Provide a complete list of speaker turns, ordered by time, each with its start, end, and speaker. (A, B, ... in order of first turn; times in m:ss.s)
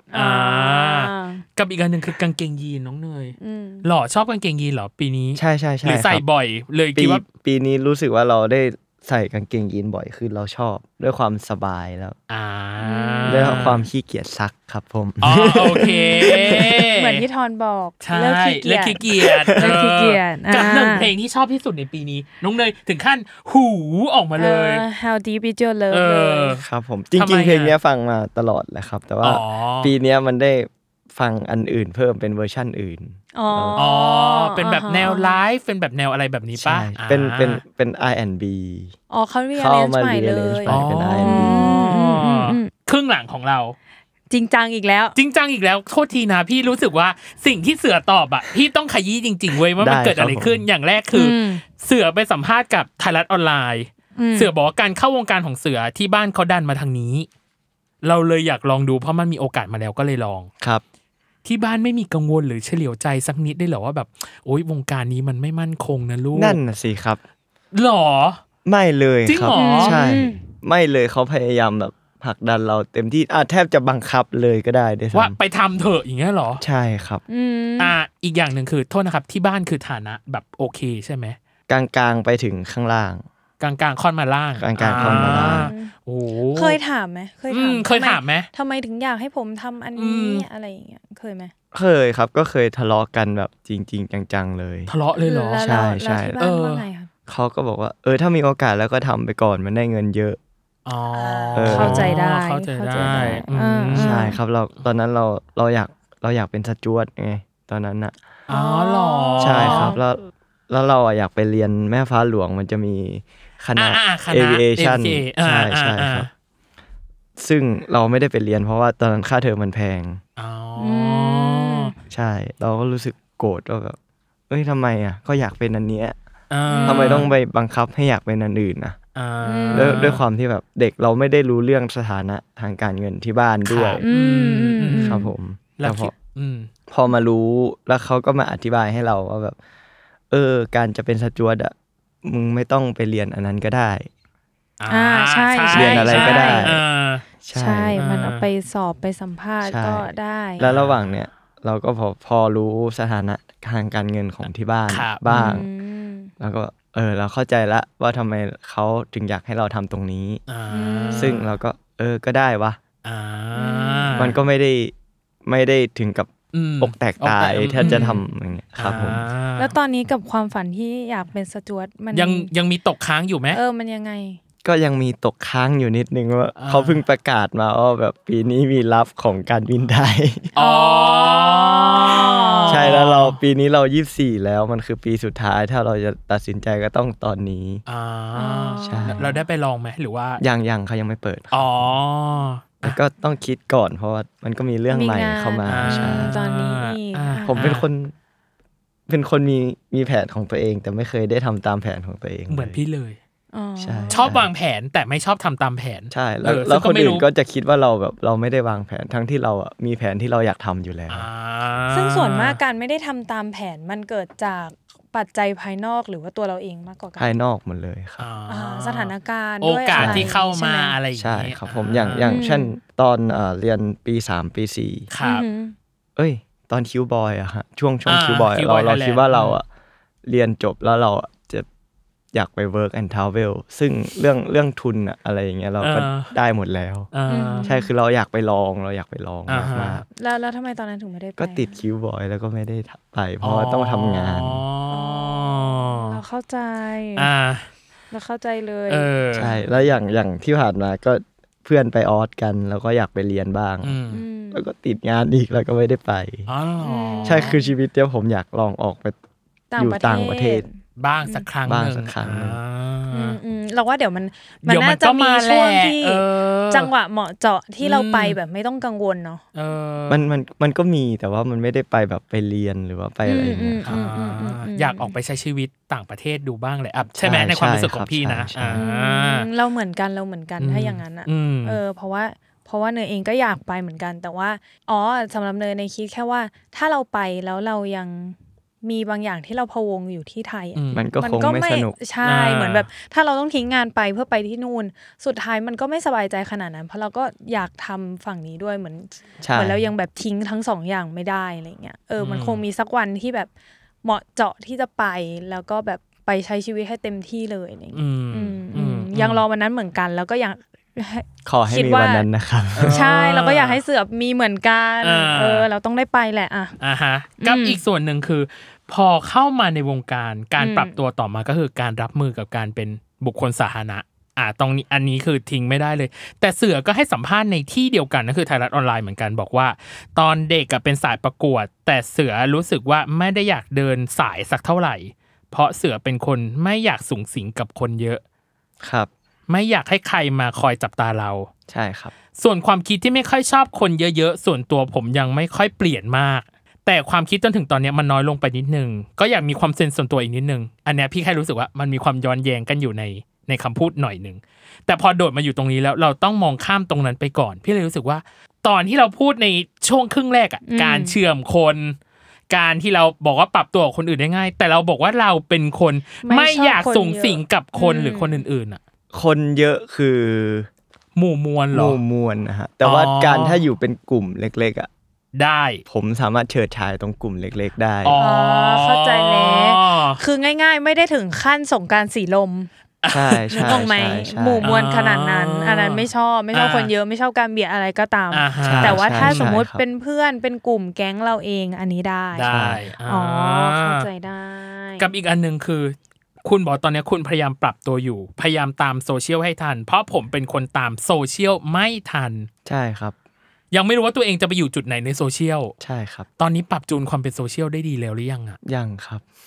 0:00.1-0:01.4 A
0:00.1-0:07.2 B
0:03.4-0:03.8 A
0:05.4-0:06.2 C
0:07.0-0:12.2 C
0:12.3-0:13.9 B
0:12.8-0:13.6 A
0:13.3-0:16.9 C
0:15.2-0:17.2 B
0:15.8-0:21.1 A
0:18.0-0:24.8 B
0:19.2-0:19.8 C
0:24.4-0:26.6 A
0:25.9-0:26.6 B
0:26.6-0:33.8 C
0:27.2-0:27.7 B
0:29.2-0:29.9 B
0:33.3-0:35.4 A
0:33.8-0:37.6 B
0:36.6-0:38.9 C
0:39.1-0:42.7 A
0:39.5-0:41.8 C
0:40.7-0:43.8 B
0:44.3-0:45.2 A
0:45.1-0:57.3 B
0:49.8-0:50.6 C
0:51.1-0:51.6 A
0:54.2-0:54.5 A
0:58.0-1:00.5 B
1:01.4-1:06.6 B
1:06.3-1:07.2 C
1:07.7-1:08.4 B
1:08.6-1:15.4 C
1:09.3-1:10.0 B
1:09.5-1:10.4 A
1:15.1-1:16.6 B
1:16.6-1:17.2 C
1:17.3-1:17.9 A
1:17.8-1:21.4 B
1:21.7-1:23.2 C
1:23.6-1:26.8 B
1:24.6-1:25.7 C
1:24.9-1:25.9 A
1:26.5-1:31.5 A
1:27.5-1:28.5 B
1:30.0-1:30.4 B
1:31.7-1:34.9 C
1:34.9-1:35.7 B
1:35.2-1:37.1 A
1:35.6-1:36.4 C
1:36.4-1:36.8 B
1:37.3-1:40.4 C
1:40.8-1:44.3 B
1:41.2-1:44.4 A
1:41.5-1:42.2 C
1:42.9-1:48.2 C
1:48.5-1:50.0 B
1:48.5-1:50.0 A
1:49.4-1:56.3 C
1:53.8-1:56.3 B
1:57.4-2:00.2 C
2:00.4-2:01.9 B
2:00.8-2:01.9 A
2:02.1-2:04.0 C
2:04.5-2:06.2 C
2:06.5-2:07.3 B
2:06.7-2:07.3 A
2:06.8-2:09.0 C
2:09.1-2:10.2 B
2:09.4-2:10.1 A
2:09.7-2:14.0 C
2:13.6-2:15.2 B
2:14.0-2:15.3 A
2:14.9-2:16.1 C
2:15.8-2:16.7 B
2:16.9-2:19.6 C
2:20.3-2:24.1 C
2:24.8-2:27.2 B
2:24.9-2:26.7 A
2:25.7-2:26.8 C
2:27.4-2:28.0 C
2:27.5-2:30.6 A
2:28.0-2:28.4 B
2:29.6-2:35.6 C
2:30.6-2:31.0 B
2:34.9-2:35.6 B
2:35.3-2:36.3 A
2:36.4-2:40.4 C
2:40.5-2:41.5 B
2:40.7-2:41.4 A
2:41.1-2:42.8 C
2:43.0-2:44.4 B
2:43.6-2:44.3 A
2:44.2-2:44.9 C
2:45.4-2:49.2 C
2:46.5-2:48.2 B
2:47.8-2:48.1 A
2:48.8-2:49.7 B
2:49.6-2:52.5 A
2:52.1-2:53.6 B
2:53.5-2:54.4 A
2:54.6-3:00.5 C
2:56.6-2:57.0 B
3:00.6-3:02.8 A
3:00.6-3:03.4 B
3:02.7-3:07.8 C
3:07.9-3:10.4 B
3:08.4-3:09.4 A
3:08.8-3:09.3 C
3:10.4-3:11.9 C
3:11.5-3:13.0 B
3:12.8-3:16.3 C
3:14.9-3:17.6 A
3:15.6-3:17.8 B
3:17.4-3:18.1 C
3:19.1-3:22.8 C
3:22.5-3:23.2 B
3:23.5-3:24.3 A
3:23.8-3:24.5 C
3:24.1-3:27.2 B
3:26.1-3:31.3 C
3:31.1-3:32.6 B
3:31.9-3:37.3 A
3:37.2-3:38.3 C
3:38.2-3:42.4 B
3:38.5-3:40.9 A
3:40.0-3:40.3 C
3:41.1-3:45.1 C
3:42.3-3:42.7 A
3:45.1-3:45.4 B
3:45.2-3:45.7 A
3:46.2-3:49.6 C
3:48.1-3:49.6 B
3:50.2-3:51.6 C
3:52.3-3:57.1 C
3:55.8-3:56.3 B
3:57.1-3:57.7 B
3:57.3-3:57.9 A
3:57.6-4:00.0 C
3:59.5-4:00.0 B
4:00.2-4:01.8 A
4:01.4-4:04.6 C
4:03.4-4:06.2 B
4:04.9-4:07.3 A
4:07.2-4:07.7 B
4:08.1-4:09.1 A
4:08.9-4:09.6 B
4:09.3-4:14.0 C
4:13.8-4:14.2 B
4:14.1-4:14.6 A
4:14.5-4:16.5 C
4:16.5-4:17.6 B
4:16.8-4:17.7 A
4:17.2-4:19.2 C
4:19.7-4:20.7 A
4:19.8-4:20.6 C
4:21.0-4:23.4 B
4:21.6-4:22.6 C
4:23.1-4:29.4 A
4:24.6-4:26.9 B
4:27.8-4:28.4 B
4:29.5-4:30.2 B
4:30.1-4:33.9 C
4:33.2-4:35.1 A
4:33.8-4:39.5 B
4:37.2-4:38.8 C
4:38.7-5:03.5 A
4:40.6-4:41.8 B
4:50.7-4:51.1 B
4:50.9-4:52.0 C
4:52.2-4:52.9 B
4:59.4-4:59.8 C
5:02.2-5:02.6 B
5:04.0-5:12.2 A
5:07.9-5:09.4 B
5:11.4-5:13.0 C
5:12.7-5:13.8 B
5:12.9-5:16.7 A
5:15.0-5:15.7 B
5:16.8-5:38.2 B
5:17.4-5:17.8 A
5:20.6-5:20.9 A
5:38.8-5:39.1 C
5:39.5-5:41.5 B
5:41.7-5:42.1 C
5:42.4-6:02.0 B
6:00.6-6:01.2 A
6:02.5-6:08.8 B
6:06.2-6:08.4 A
6:09.1-6:10.7 C
6:11.2-6:12.0 B
6:11.7-6:14.9 C
6:12.8-6:13.6 B
6:15.3-6:15.8 B
6:15.9-6:18.2 C
6:18.0-6:20.2 B
6:18.2-6:22.7 A
6:23.0-6:23.8 B
6:23.1-6:24.7 C
6:23.6-6:32.5 A
6:24.6-6:26.9 B
6:28.3-6:29.4 B
6:28.6-6:29.8 C
6:32.3-6:34.1 B
6:32.5-6:32.8 C
6:33.1-6:35.1 A
6:35.0-6:42.5 B
6:42.6-6:43.1 C
6:43.7-6:45.7 B
6:45.8-6:46.3 C
6:46.4-6:48.6 B
6:48.6-6:49.2 C